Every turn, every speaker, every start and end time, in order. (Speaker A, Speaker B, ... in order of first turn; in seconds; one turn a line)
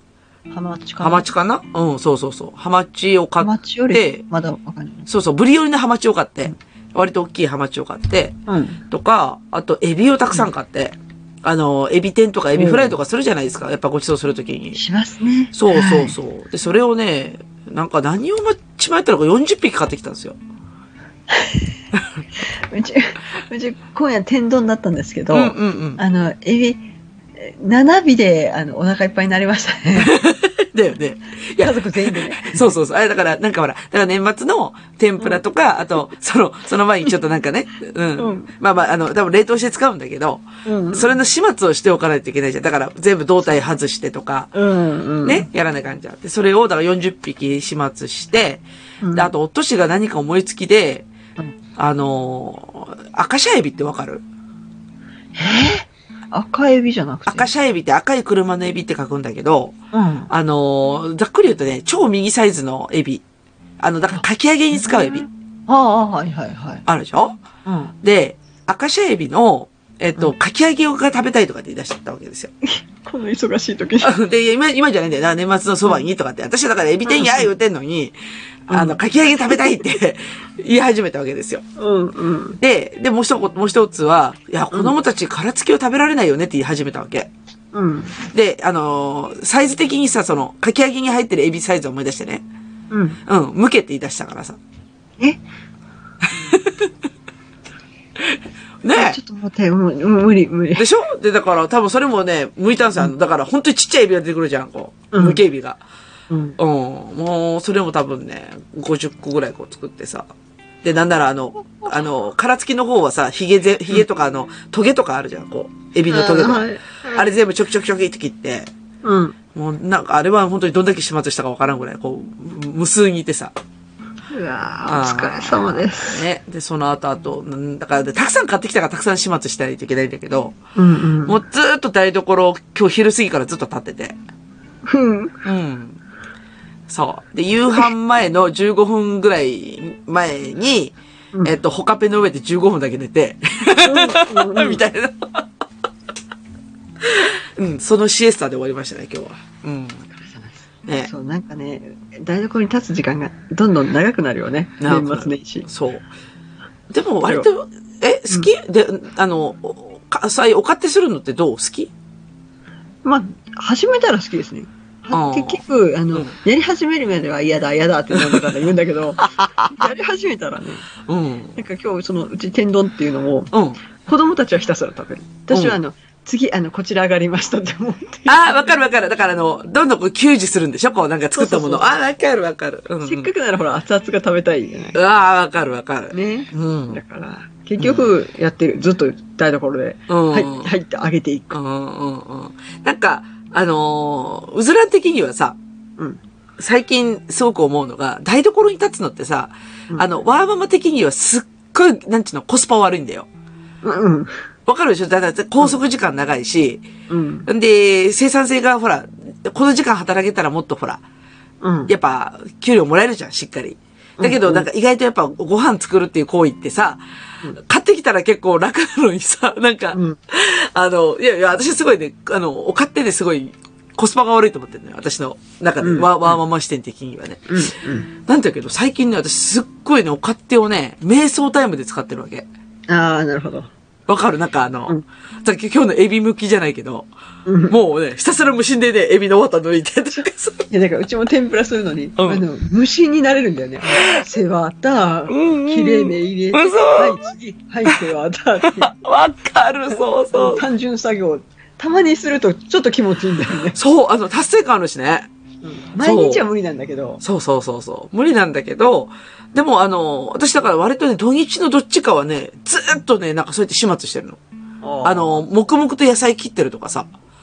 Speaker A: 0.5-1.3
Speaker B: 1.0-4.2
Speaker A: 3.4-5.1
Speaker B: 5.1-8.4
Speaker A: 8.5-8.8
Speaker B: 8.9-14.8
Speaker A: 12.6-13.0
Speaker A: 14.8-16.2
Speaker B: 15.5-20.4
Speaker A: 21.3-21.7
Speaker A: 22.4-26.8
Speaker B: 25.3-26.0
Speaker A: 27.4-30.1
Speaker B: 30.0-44.5
Speaker A: 31.6-32.7
Speaker A: 38.2-38.5
Speaker A: 40.6-41.1
Speaker A: 44.5-45.5
Speaker B: 45.2-48.6
Speaker A: 49.0-49.3
Speaker B: 49.1-51.1
Speaker B: 51.8-54.2
Speaker A: 55.3-57.5
Speaker B: 57.3-59.8
Speaker A: 59.9-60.3
Speaker B: 60.3-63.2
Speaker B: 63.8-65.3
Speaker A: 64.8-66.8
Speaker B: 66.8-67.4
Speaker A: 67.7-67.9
Speaker B: 68.0-72.5
Speaker A: 72.6-74.2
Speaker B: 74.0-78.1
Speaker A: 77.0-77.5
Speaker B: 78.7-81.6
Speaker A: 78.7-79.0
Speaker A: 79.5-79.8
Speaker A: 81.8-82.6
Speaker B: 82.6-87.3
Speaker A: 87.7-88.2
Speaker B: 88.3-92.4
Speaker A: 92.9-93.2
Speaker B: 93.2-94.6
Speaker B: 96.2-96.9
Speaker B: 98.2-99.2
Speaker A: 98.9-100.8
Speaker B: 100.8-105.8
Speaker A: 105.1-105.4
Speaker A: 106.3-106.6
Speaker B: 106.6-110.3
Speaker B: 110.8-118.7
Speaker A: 116.1-117.2
Speaker A: 119.0-119.3
Speaker B: 119.5-123.5
Speaker A: 124.3-126.3
Speaker B: 124.8-130.6
Speaker A: 130.8-131.4
Speaker B: 131.2-134.2
Speaker A: 134.8-135.4
Speaker B: 135.4-136.0
Speaker B: 136.9-145.5
Speaker A: 143.8-144.8
Speaker B: 147.0-150.1
Speaker A: 150.2-155.7
Speaker B: 154.8-156.1
Speaker B: 156.9-161.9
Speaker A: 163.0-170.9
Speaker B: 165.1-166.3
Speaker B: 168.1-168.4
Speaker B: 169.2-169.7
Speaker B: 171.1-171.6
Speaker A: 171.6-178.7
Speaker B: 173.5-173.8
Speaker B: 175.5-175.8
Speaker B: 178.3-183.3
Speaker A: 181.3-181.9
Speaker A: 183.0-185.0
Speaker B: 184.9-187.0
Speaker A: 186.1-191.6
Speaker B: 187.8-188.1
Speaker B: 190.1-190.7
Speaker B: 191.5-195.6
Speaker B: 196.6-203.3
Speaker A: 203.8-204.4
Speaker B: 204.7-206.8
Speaker A: 207.1-207.5
Speaker B: 207.5-211.0
Speaker A: 211.6-211.9
Speaker B: 211.9-217.0
Speaker A: 214.2-214.7
Speaker B: 217.5-232.5
Speaker A: 225.8-226.4
Speaker A: 227.5-228.1
Speaker A: 232.9-233.7
Speaker B: 234.1-237.1
Speaker A: 237.4-237.8
Speaker B: 237.7-240.7
Speaker A: 240.7-248.9
Speaker B: 242.2-242.4
Speaker B: 245.3-247.2
Speaker B: 248.6-250.7
Speaker A: 250.3-253.8
Speaker B: 253.6-255.3
Speaker A: 255.6-257.2
Speaker B: 256.0-256.5
Speaker B: 257.2-264.4
Speaker A: 264.8-265.4
Speaker B: 265.0-267.1